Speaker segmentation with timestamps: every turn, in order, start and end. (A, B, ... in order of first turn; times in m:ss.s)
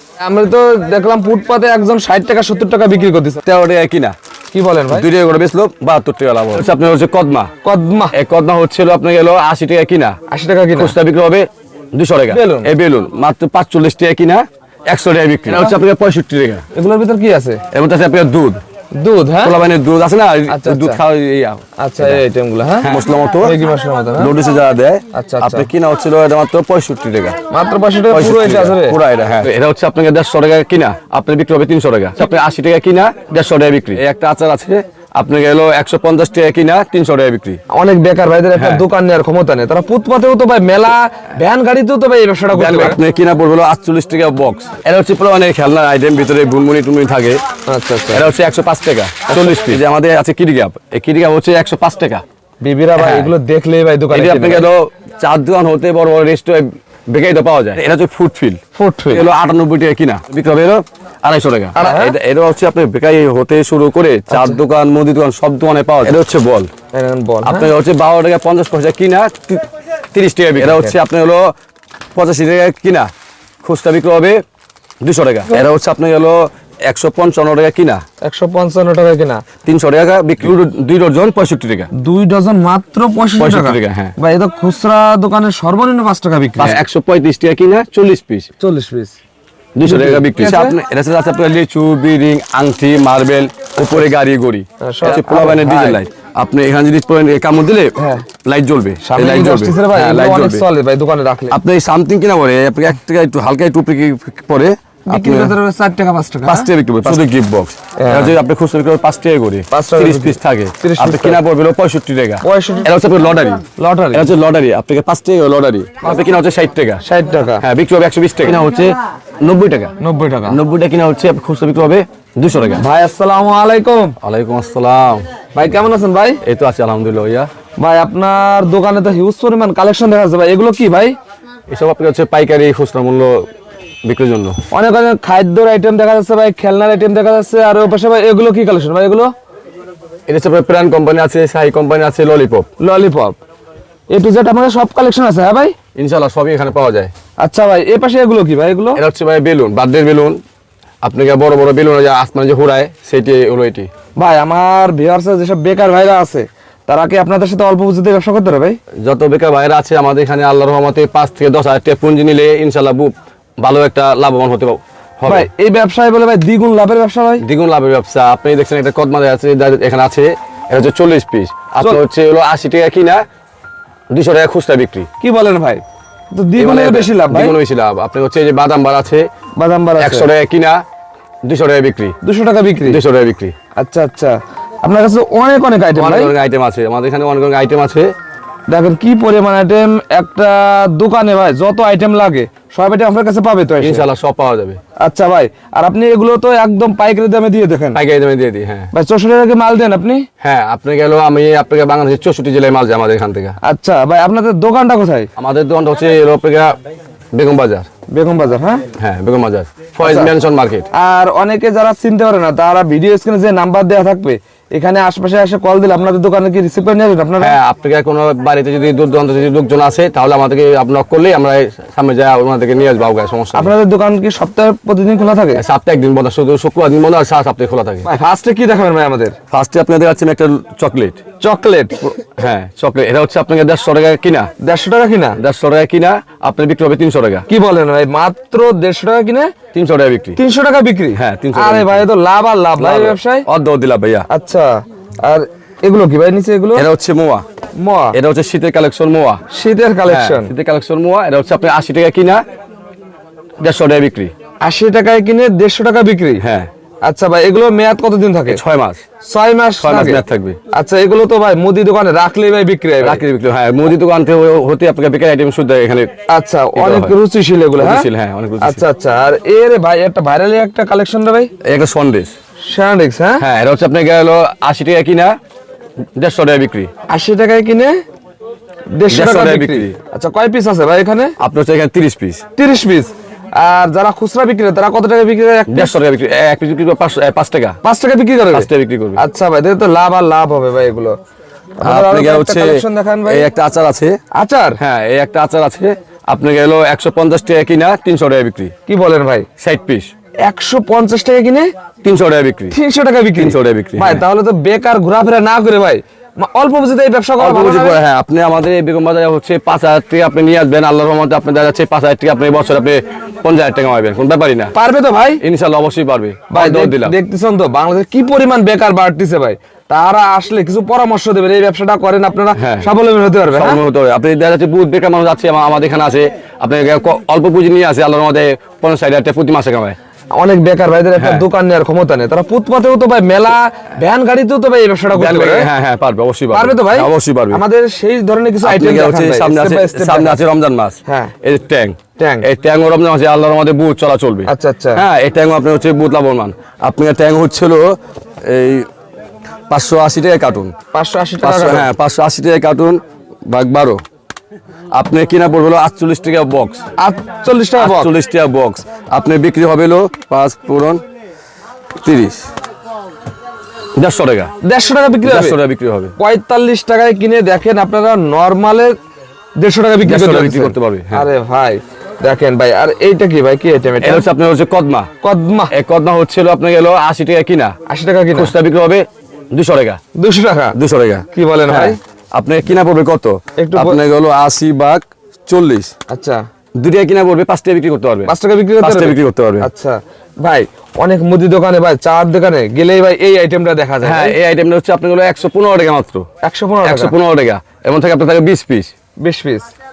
0:00.2-0:03.4 A
0:03.4-0:04.1 B
0:04.5-0:05.1 A
0:04.9-0:07.5 B
0:07.6-0:08.1 A
0:08.1-0:10.2 B
0:10.3-0:11.0 A
0:10.8-0:16.6 B
0:12.3-0:12.7 A
0:16.7-0:17.6 A
0:17.7-0:18.6 B
0:19.0-0:19.6 A
0:19.4-0:22.2 B
0:20.5-0:21.0 A
0:21.8-0:24.3 A
0:22.8-0:23.5 B
0:24.2-0:27.4 B
0:25.1-0:25.7 A
0:27.5-0:29.0 A
0:28.1-0:37.6 B
0:37.7-0:43.0 A
0:38.6-0:38.8 B
0:42.5-0:47.4 B
0:47.7-0:48.3 A
0:48.1-0:52.2 B
0:49.3-0:49.8 A
0:52.6-0:54.7 A
0:53.0-0:53.3 B
0:54.1-1:06.7 B
0:58.7-0:59.3 A
1:01.7-1:02.2 A
1:04.3-1:04.6 A
1:06.9-1:07.7 A
1:07.4-1:11.5 B
1:10.6-1:11.0 A
1:12.1-1:13.1 B
1:13.6-1:14.4 B
1:15.0-1:18.0 B
1:18.2-1:19.4 A
1:19.6-1:21.9 B
1:21.9-1:26.8 A
1:23.4-1:24.1 B
1:26.6-1:28.5 B
1:28.6-1:29.2 A
1:29.8-1:40.6 B
1:29.9-1:30.8 A
1:34.8-1:36.0 A
1:38.0-1:38.2 A
1:39.0-1:41.6 A
1:41.5-1:45.5 B
1:45.1-1:47.2 A
1:46.4-1:57.0 B
1:48.0-1:48.4 A
1:49.7-1:51.4 A
1:52.4-1:52.9 A
1:53.8-1:54.3 A
1:57.0-1:57.6 A
1:57.6-1:59.9 B
2:00.0-2:00.6 A
2:00.5-2:02.8 B
2:02.8-2:04.2 A
2:04.2-2:05.2 B
2:05.5-2:06.4 A
2:06.4-2:07.5 B
2:07.8-2:11.2 A
2:11.7-2:13.5 B
2:14.0-2:14.6 B
2:14.7-2:19.3 A
2:20.3-2:22.7 B
2:22.8-2:23.4 A
2:24.1-2:25.7 A
2:25.9-2:27.1 B
2:27.4-2:29.0 A
2:28.9-2:30.4 B
2:31.0-2:33.9 B
2:34.2-2:38.8 A
2:39.0-2:45.5 B
2:45.2-2:47.4 A
2:47.4-2:53.2 B
2:54.1-2:55.1 B
2:55.2-2:57.6 A
2:56.6-2:59.3 B
2:59.6-3:00.3 A
3:00.0-3:00.8 B
3:01.4-3:02.2 B
3:02.2-3:03.0 A
3:02.8-3:03.5 B
3:03.7-3:06.3 A
3:05.9-3:08.1 B
3:08.7-3:14.0 A
3:13.8-3:14.8 B
3:15.0-3:18.0 A
3:17.9-3:18.9 B
3:18.9-3:20.3 A
3:20.4-3:23.6 B
3:23.6-3:25.3 A
3:25.4-3:26.8 B
3:27.3-3:27.9 B
3:28.1-3:28.8 A
3:29.0-3:30.9 B
3:30.0-3:30.3 A
3:30.9-3:37.6 A
3:37.4-3:43.7 B
3:43.5-3:45.6 A
3:45.5-3:48.1 B
3:48.0-3:49.4 A
3:49.5-3:51.2 B
3:51.4-3:52.2 A
3:52.4-3:54.5 B
3:54.6-3:55.4 A
3:55.4-3:57.4 B
3:57.5-3:59.5 A
3:59.7-4:00.4 B
4:00.4-4:03.4 A
4:01.1-4:02.1 B
4:02.8-4:04.3 B
4:04.3-4:06.9 A
4:06.7-4:07.4 B
4:07.8-4:08.2 A
4:08.1-4:09.4 B
4:09.5-4:10.5 A
4:10.0-4:12.4 B
4:13.6-4:14.3 B
4:14.6-4:16.4 A
4:16.4-4:16.7 B
4:17.0-4:18.6 A
4:18.5-4:19.0 B
4:19.2-4:23.2 A
4:19.8-4:20.6 B
4:23.0-4:26.1 B
4:26.3-4:28.1 A
4:26.7-4:27.1 B
4:27.8-4:28.8 B
4:28.6-4:31.5 A
4:31.6-4:32.3 B
4:32.6-4:33.4 A
4:33.4-4:35.3 B
4:36.2-4:36.9 B
4:37.1-4:38.0 A
4:38.9-4:41.3 A
4:39.1-4:40.0 B
4:41.4-4:42.4 B
4:42.6-4:45.9 A
4:45.7-4:47.8 B
4:47.8-4:51.2 A
4:48.5-4:49.2 B
4:51.8-4:53.5 A
4:51.8-4:54.2 B
4:54.3-4:54.8 A
4:54.8-4:58.7 B
4:58.9-4:59.5 A
4:59.6-5:00.1 B
5:00.4-5:01.7 A
5:02.0-5:02.7 B
5:02.7-5:08.0 A
5:03.4-5:04.2 B
5:07.4-5:14.7 B
5:14.7-5:15.4 A
5:15.4-5:17.1 B
5:16.5-5:23.8 A
5:22.5-5:22.9 B
5:23.5-5:30.0 B
5:30.3-5:35.7 A
5:31.2-5:31.4 B
5:35.1-5:37.6 B
5:36.5-5:40.4 A
5:38.6-5:48.9 B
5:41.0-5:41.3 A
5:42.2-5:42.5 A
5:44.5-5:45.0 A
5:49.7-5:50.7 B
5:50.9-5:51.9 A
5:51.4-5:54.0 B
5:54.9-5:56.8 B
5:57.0-5:58.1 A
5:57.8-6:01.0 B
6:02.0-6:02.5 B
6:04.0-6:04.5 B
6:04.6-6:05.6 A
6:05.2-6:06.1 B
6:06.2-6:09.0 A
6:09.6-6:14.2 A
6:10.0-6:11.3 B
6:14.0-6:15.1 B
6:15.2-6:15.7 A
6:15.7-6:17.8 B
6:17.9-6:18.5 A
6:18.3-6:20.0 B
6:20.1-6:20.8 A
6:20.7-6:25.9 B
6:21.3-6:22.0 A
6:23.6-6:24.0 A
6:26.1-6:26.4 A
6:26.8-6:29.7 B
6:28.3-6:34.4 A
6:34.0-6:36.3 B
6:36.4-6:37.1 A
6:36.8-6:38.9 B
6:39.2-6:39.7 A